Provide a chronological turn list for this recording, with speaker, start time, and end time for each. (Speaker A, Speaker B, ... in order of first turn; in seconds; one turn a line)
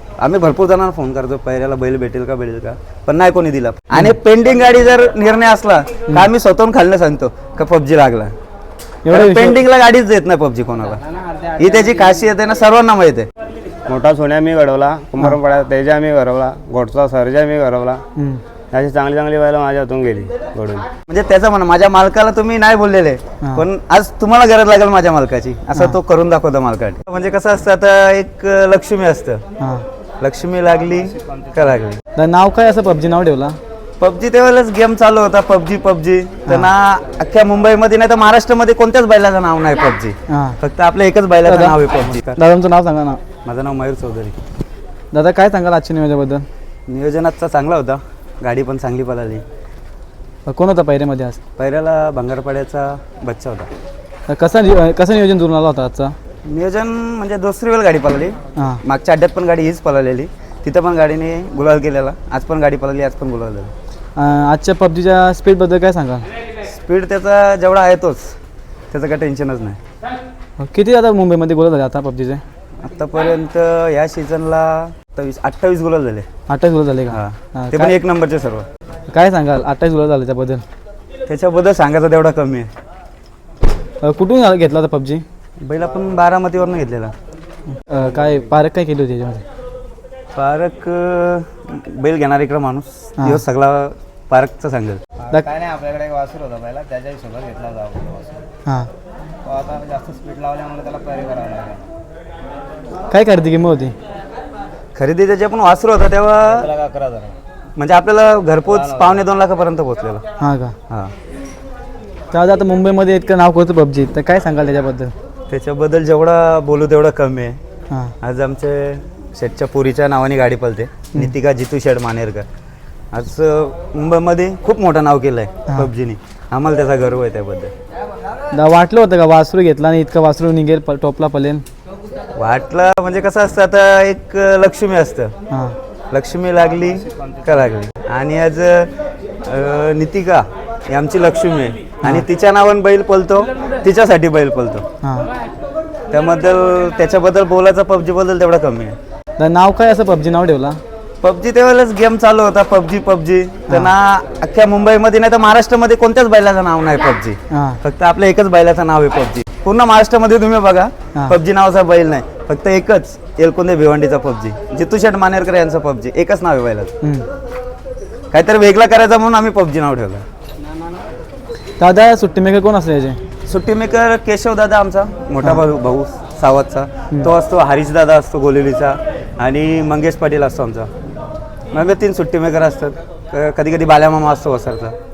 Speaker A: 0.2-8.3
Speaker B: 9.1-9.6
Speaker A: 9.1-13.3
Speaker C: 13.9-18.0
Speaker B: 18.2-18.4
Speaker C: 18.7-20.9
Speaker A: 21.1-29.4
Speaker B: 29.6-29.9
Speaker A: 30.2-32.0
Speaker B: 32.1-33.6
Speaker A: 34.0-42.4
Speaker B: 40.3-40.6
Speaker B: 41.5-43.2
Speaker A: 43.4-44.4
Speaker B: 45.1-46.5
Speaker A: 46.9-49.4
Speaker B: 50.5-51.4
Speaker A: 51.6-53.7
Speaker B: 54.3-56.2
Speaker A: 56.5-63.7
Speaker B: 58.6-58.8
Speaker B: 64.2-66.3
Speaker A: 66.6-68.3
Speaker A: 68.9-69.8
Speaker B: 70.6-72.4
Speaker A: 72.8-76.3
Speaker B: 76.5-78.0
Speaker A: 77.1-78.7
Speaker B: 79.1-80.7
Speaker A: 81.3-82.7
Speaker B: 84.0-85.2
Speaker A: 85.6-87.1
Speaker B: 87.9-89.4
Speaker A: 90.3-95.0
Speaker C: 95.2-98.4
Speaker C: 99.4-101.9
Speaker B: 103.1-103.9
Speaker A: 105.0-106.7
Speaker C: 106.5-107.3
Speaker A: 107.8-110.2
Speaker C: 108.7-109.2
Speaker B: 110.4-110.8
Speaker B: 112.3-115.1
Speaker A: 115.5-117.6
Speaker A: 118.2-122.5
Speaker A: 123.1-127.7
Speaker B: 128.5-131.6
Speaker A: 132.3-135.3
Speaker B: 135.5-135.8
Speaker A: 136.1-144.9
Speaker B: 145.0-145.3
Speaker A: 146.1-149.0
Speaker B: 149.4-150.8
Speaker A: 151.2-166.9
Speaker B: 157.5-157.8
Speaker B: 167.0-167.3
Speaker A: 168.3-170.2
Speaker B: 171.8-173.2
Speaker A: 173.5-180.9
Speaker A: 181.7-185.0